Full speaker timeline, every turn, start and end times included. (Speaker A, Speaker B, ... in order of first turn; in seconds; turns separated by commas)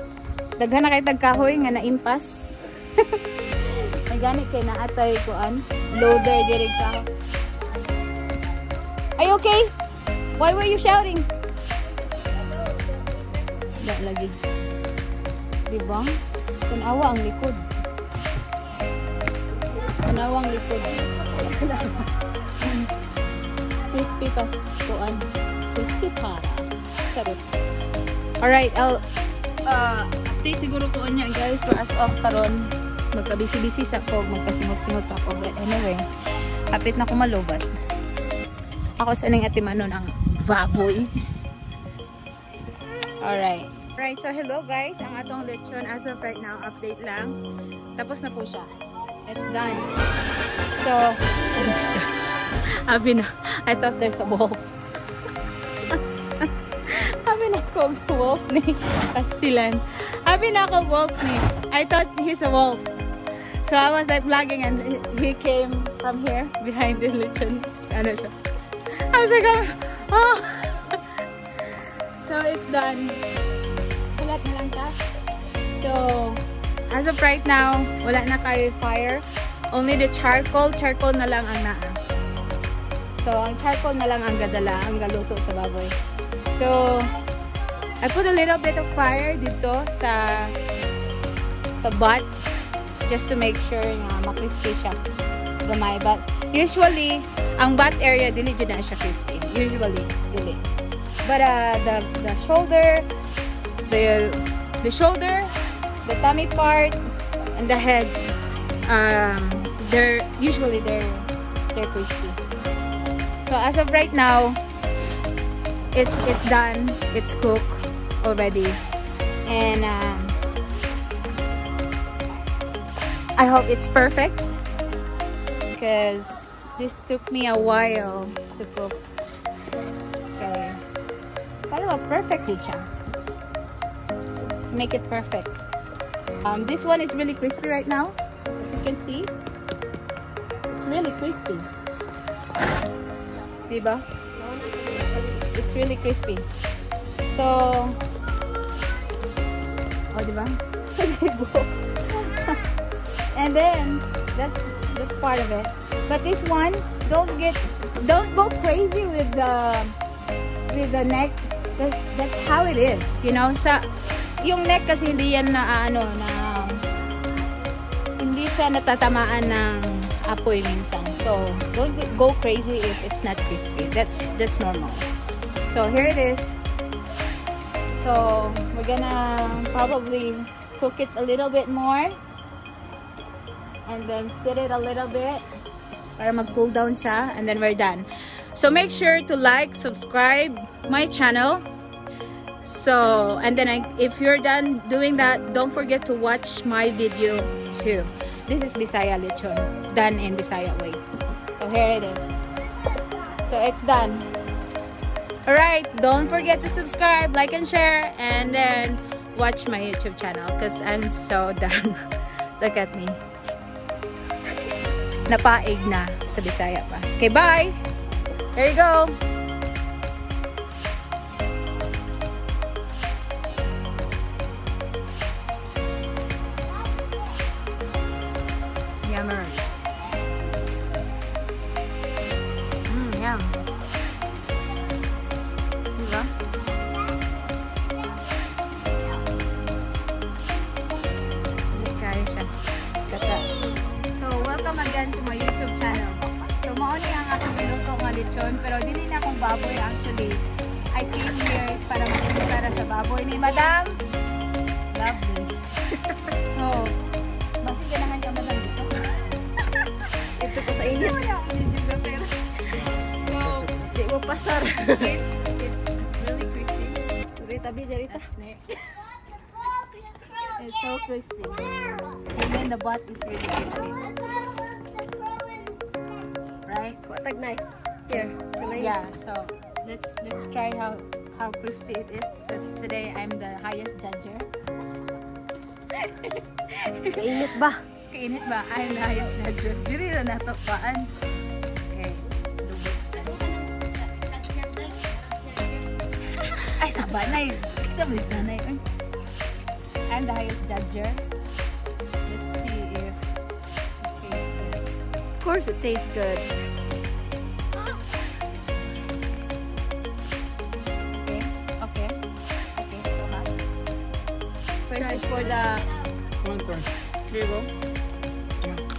Speaker A: 0.6-7.1, Speaker A: 9.2-9.7, Speaker A: 10.3-11.3, Speaker A: 13.8-14.4, Speaker A: 15.7-17.6, Speaker B: 19.6-19.9, Speaker A: 20.0-21.1, Speaker B: 21.3-22.1, Speaker A: 22.6-22.9, Speaker A: 23.9-27.4, Speaker A: 28.4-29.0, Speaker A: 29.7-36.0, Speaker A: 36.7-37.7, Speaker A: 39.0-41.1, Speaker A: 43.2-47.4, Speaker A: 48.0-48.7, Speaker A: 49.3-49.9, Speaker A: 50.8-54.6, Speaker A: 55.9-62.9, Speaker A: 63.6-68.3, Speaker A: 69.0-71.0, Speaker A: 72.2-73.2, Speaker A: 74.2-75.0, Speaker A: 75.8-82.0, Speaker A: 83.2-85.9, Speaker A: 86.6-87.1, Speaker A: 88.0-90.5, Speaker A: 91.8-92.3, Speaker A: 93.1-95.0, Speaker A: 95.6-100.6, Speaker A: 101.2-103.1, Speaker A: 103.9-105.5, Speaker A: 106.0-107.0, Speaker A: 107.5-108.2, Speaker A: 108.9-112.4, Speaker A: 113.4-114.6, Speaker A: 115.9-118.8, Speaker A: 119.5-120.3, Speaker A: 123.4-124.5, Speaker A: 125.7-129.0, Speaker A: 130.4-130.8, Speaker A: 131.7-132.9, Speaker A: 134.7-135.7, Speaker A: 136.4-139.3, Speaker A: 140.7-141.7, Speaker A: 143.7-144.0, Speaker B: 144.3-145.4, Speaker A: 145.5-146.5, Speaker A: 147.3-148.0, Speaker A: 150.1-152.6, Speaker A: 153.3-160.0, Speaker A: 160.7-163.9, Speaker A: 164.4-166.9, Speaker A: 168.2-175.1, Speaker A: 175.7-176.6, Speaker A: 178.0-182.2, Speaker A: 183.9-185.5, Speaker A: 186.2-191.7, Speaker A: 192.6-201.0, Speaker A: 201.6-202.3, Speaker A: 203.4-204.3, Speaker A: 205.5-212.0, Speaker A: 212.6-213.2, Speaker A: 215.3-217.8, Speaker A: 218.6-219.2, Speaker A: 229.0-229.9, Speaker A: 232.9-233.6, Speaker A: 236.0-236.3, Speaker A: 241.7-242.5, Speaker A: 243.1-243.5, Speaker A: 244.2-254.0, Speaker A: 254.9-255.5, Speaker A: 256.5-257.0, Speaker A: 257.6-259.4, Speaker B: 260.4-261.2, Speaker A: 260.4-263.7, Speaker C: 262.7-264.5, Speaker B: 263.9-265.1, Speaker A: 264.9-267.0, Speaker B: 267.4-268.2, Speaker A: 268.1-268.7, Speaker A: 270.6-271.6, Speaker A: 272.3-274.0, Speaker A: 276.7-277.0, Speaker B: 277.1-279.0, Speaker A: 278.1-284.5, Speaker A: 285.9-287.3, Speaker B: 287.1-287.8, Speaker A: 288.1-291.1, Speaker A: 291.9-293.6, Speaker A: 294.4-295.1, Speaker A: 296.6-298.8, Speaker A: 300.1-301.2, Speaker A: 302.3-303.2, Speaker A: 304.0-304.9, Speaker B: 305.4-306.4, Speaker A: 311.1-312.2, Speaker A: 312.8-313.5, Speaker A: 314.9-315.9, Speaker B: 315.0-315.6, Speaker C: 316.4-316.9, Speaker A: 317.3-317.7